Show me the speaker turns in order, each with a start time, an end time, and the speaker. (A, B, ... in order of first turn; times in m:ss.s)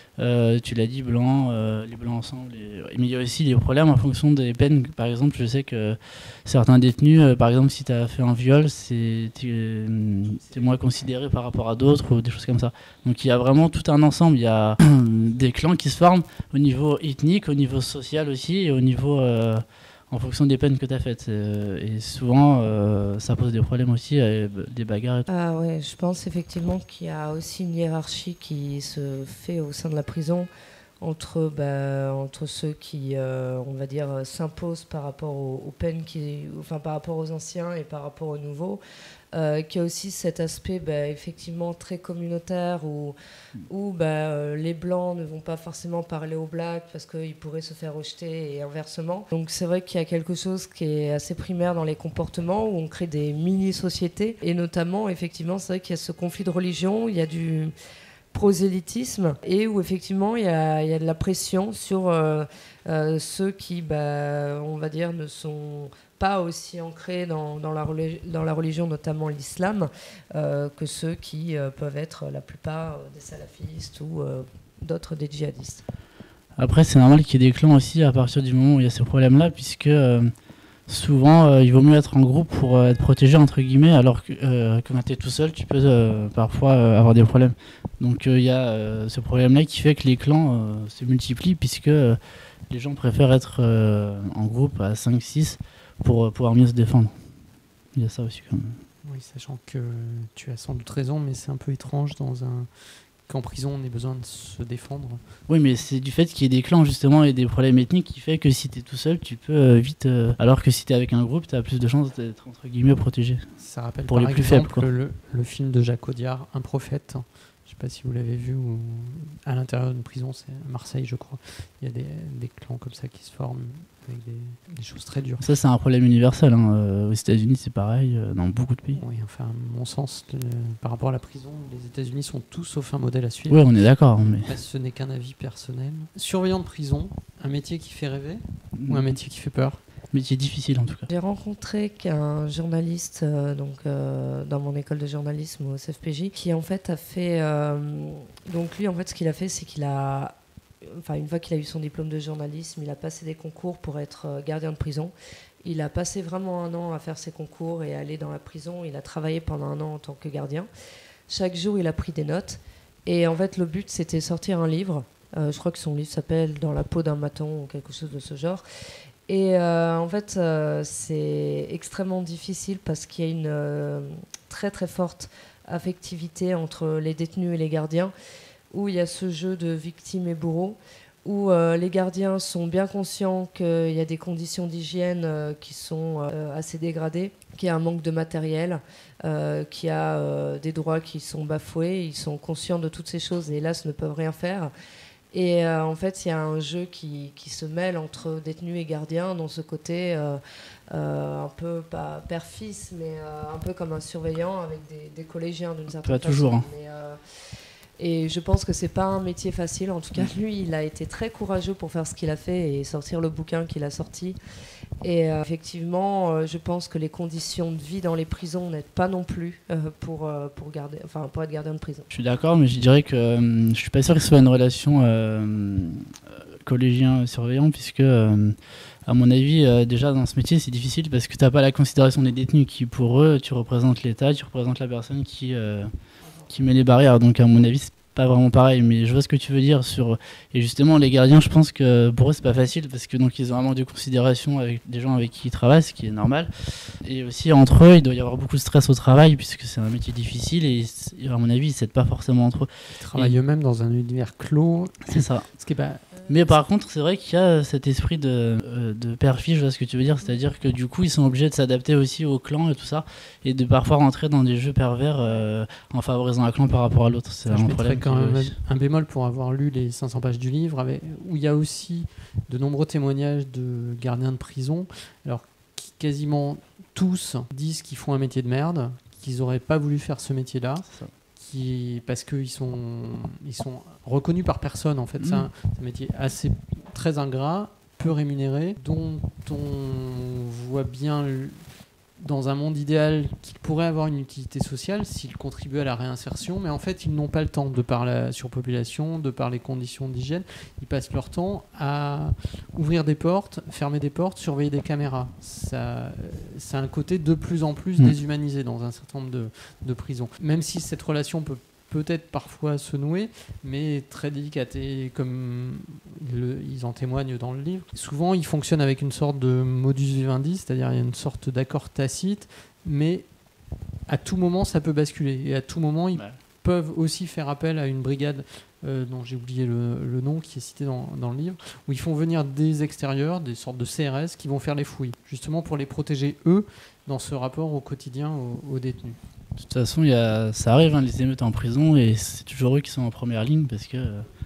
0:00.2-0:25.3 A
0:25.3-0:30.5 B
0:31.0-0:38.8 B
0:39.3-0:43.2 B
0:43.7-0:57.7 B
0:58.3-1:15.8 B
1:16.6-1:20.3 A
1:20.9-1:32.2 A
1:32.7-1:37.1 A
1:37.9-1:38.8 A
1:39.0-1:42.7 C
1:43.3-1:45.2 C
1:45.5-1:53.4 A
1:53.6-2:05.4 C
1:54.1-1:54.8 A
2:05.4-2:09.0 A
2:09.0-2:13.7 C
2:13.5-2:14.5 A
2:14.4-2:19.8 C
2:18.8-2:19.1 A
2:20.1-2:21.1 A
2:21.1-2:40.7 B
2:41.3-2:48.6 B
2:49.3-2:58.1 B
2:58.7-3:14.7 B
3:15.3-3:20.4 B
3:20.9-3:27.2 B
3:26.0-3:26.7 A
3:28.0-3:34.4 B
3:35.0-3:42.1 B
3:42.1-3:55.9 A
3:56.5-4:13.4 A
4:13.0-4:16.3 C
4:15.1-4:15.4 A
4:16.3-4:28.6 A
4:27.5-4:51.6 C
4:45.2-4:45.5 A
4:52.2-5:23.3 C
5:24.1-5:39.2 C
5:39.6-5:44.2 A